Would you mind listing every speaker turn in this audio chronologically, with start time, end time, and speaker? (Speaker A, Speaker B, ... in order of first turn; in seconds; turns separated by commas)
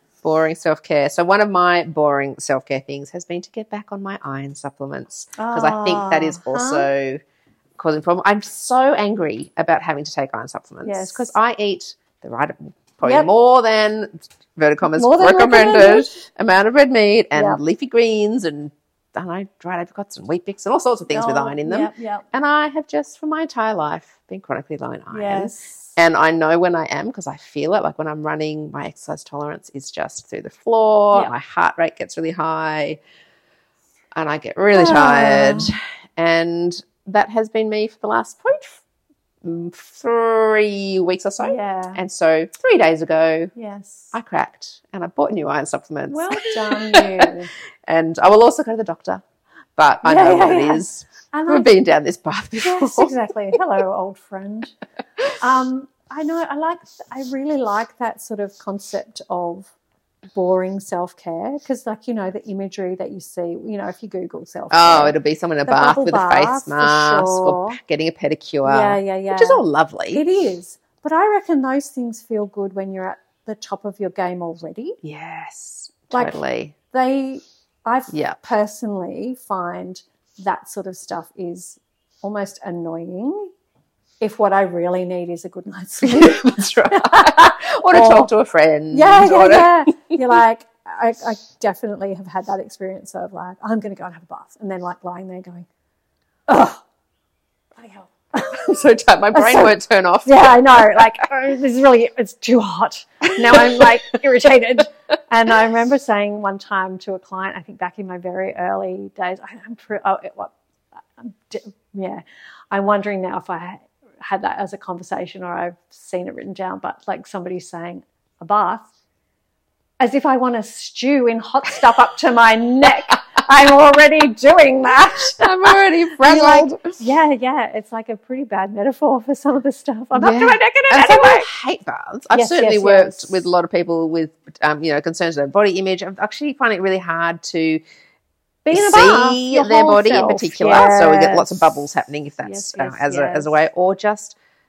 Speaker A: 0.2-7.2, Speaker B: 5.4-6.9, Speaker A: 7.8-33.0, Speaker B: 10.8-11.3, Speaker B: 13.0-13.3, Speaker B: 14.9-16.2, Speaker B: 17.4-17.6, Speaker B: 21.1-22.3, Speaker B: 25.1-25.9, Speaker A: 34.1-38.8, Speaker B: 34.7-35.8, Speaker A: 39.4-43.5, Speaker B: 41.4-42.0, Speaker B: 43.5-44.1, Speaker A: 44.1-47.3, Speaker B: 46.1-47.5, Speaker A: 47.9-49.2, Speaker A: 49.8-53.1, Speaker B: 50.0-51.7, Speaker B: 52.6-54.7, Speaker B: 55.4-59.7, Speaker B: 60.3-65.2, Speaker A: 64.7-70.2, Speaker B: 65.7-67.8, Speaker B: 68.6-75.0, Speaker A: 75.0-76.8, Speaker B: 76.1-83.5, Speaker A: 78.1-78.4, Speaker B: 84.2-88.3, Speaker A: 86.0-90.2, Speaker B: 88.9-95.7, Speaker B: 96.5-96.8, Speaker B: 97.8-98.8, Speaker A: 98.4-101.3, Speaker B: 99.3-110.5, Speaker A: 103.2-104.2, Speaker B: 111.2-118.9, Speaker B: 120.0-131.5, Speaker A: 125.2-127.0, Speaker A: 130.2-137.8, Speaker B: 132.3-133.5, Speaker B: 138.7-141.7, Speaker A: 138.7-144.4, Speaker B: 142.4-143.6